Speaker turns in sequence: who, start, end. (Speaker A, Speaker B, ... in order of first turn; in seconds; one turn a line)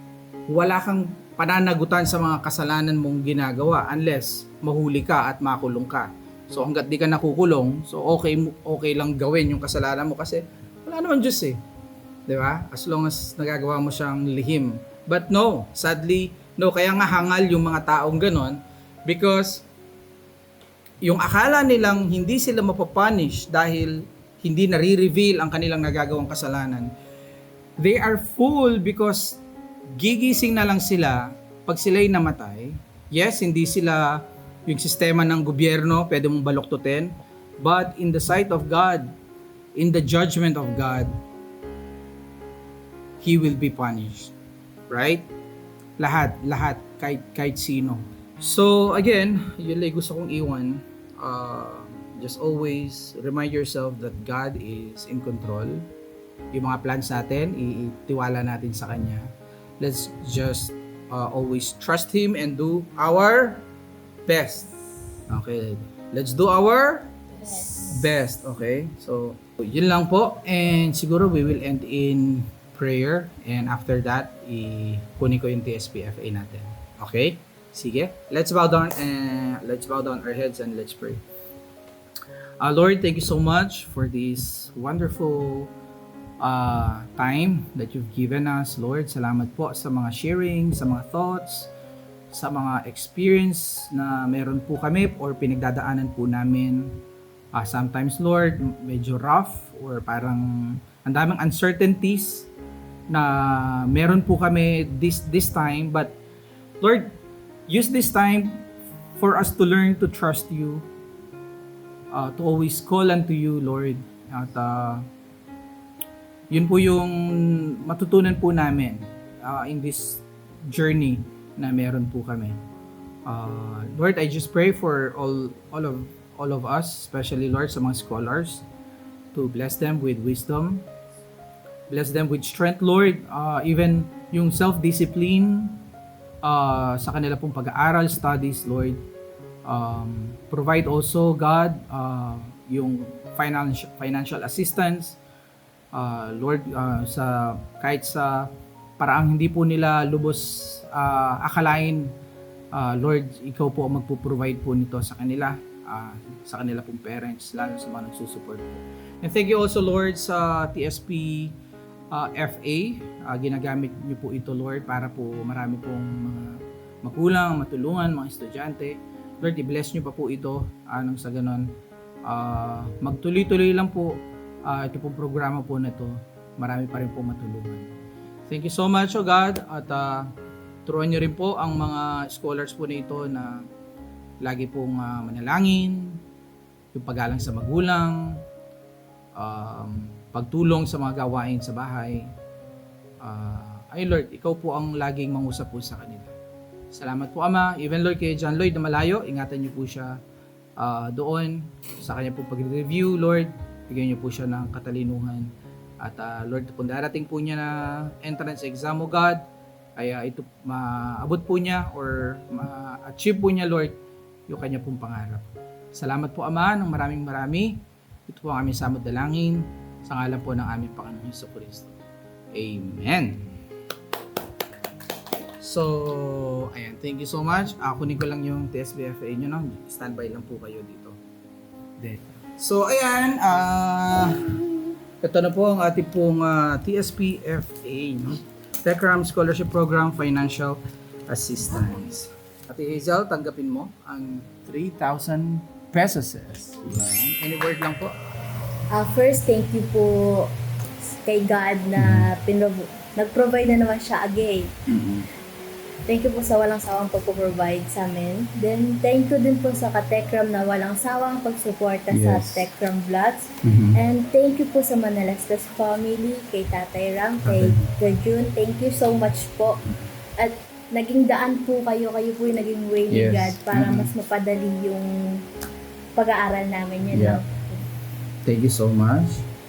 Speaker A: 0.5-11.6
Speaker A: 12.3-19.6
Speaker A: 21.1-26.9
Speaker A: 27.8-29.4
Speaker A: 29.9-39.1
Speaker A: 39.8-41.2
Speaker A: 43.2-44.3
Speaker A: 44.9-45.3
Speaker A: 46.0-55.9
Speaker A: 56.5-59.3
Speaker A: 59.8-63.7
Speaker A: 64.3-64.7
Speaker A: 65.3-67.2
Speaker B: 67.3-68.0
Speaker A: 67.8-81.2
Speaker A: 82.6-85.7
Speaker A: 86.4-91.7
Speaker A: 92.3-97.0
Speaker A: 97.5-102.5
Speaker A: 103.1-106.2
Speaker A: 106.8-107.2
Speaker A: 107.7-108.7
Speaker A: 109.2-110.9
Speaker A: 112.1-115.1
Speaker A: 116.5-122.6
Speaker A: 123.3-128.6
Speaker A: 129.3-130.9
Speaker A: 131.9-135.8
Speaker A: 136.4-139.0
Speaker A: 139.7-145.2
Speaker A: 145.9-152.1
Speaker A: 152.7-161.6
Speaker A: 162.1-171.7
Speaker A: 172.3-177.9
Speaker A: 178.5-180.3
Speaker A: 180.9-183.7
Speaker A: 184.4-186.2
Speaker A: 186.9-188.4
Speaker A: 189.4-192.3
Speaker A: 193.2-196.3
Speaker A: 196.9-200.2
Speaker A: 200.8-209.5
Speaker A: 210.0-214.0
Speaker A: 214.5-222.0
Speaker A: 222.5-223.5
Speaker A: 225.6-231.2
Speaker A: 232.0-234.6
Speaker A: 235.2-248.2
Speaker B: 248.9-250.5
Speaker B: 251.1-254.7
Speaker A: 252.0-252.3
Speaker A: 254.9-255.3
Speaker B: 256.1-269.8
Speaker A: 262.1-262.7
Speaker A: 263.6-264.0
Speaker A: 267.4-267.9
Speaker B: 270.4-275.4
Speaker A: 273.1-274.1
Speaker B: 276.2-277.9
Speaker A: 277.1-277.4
Speaker A: 278.5-279.4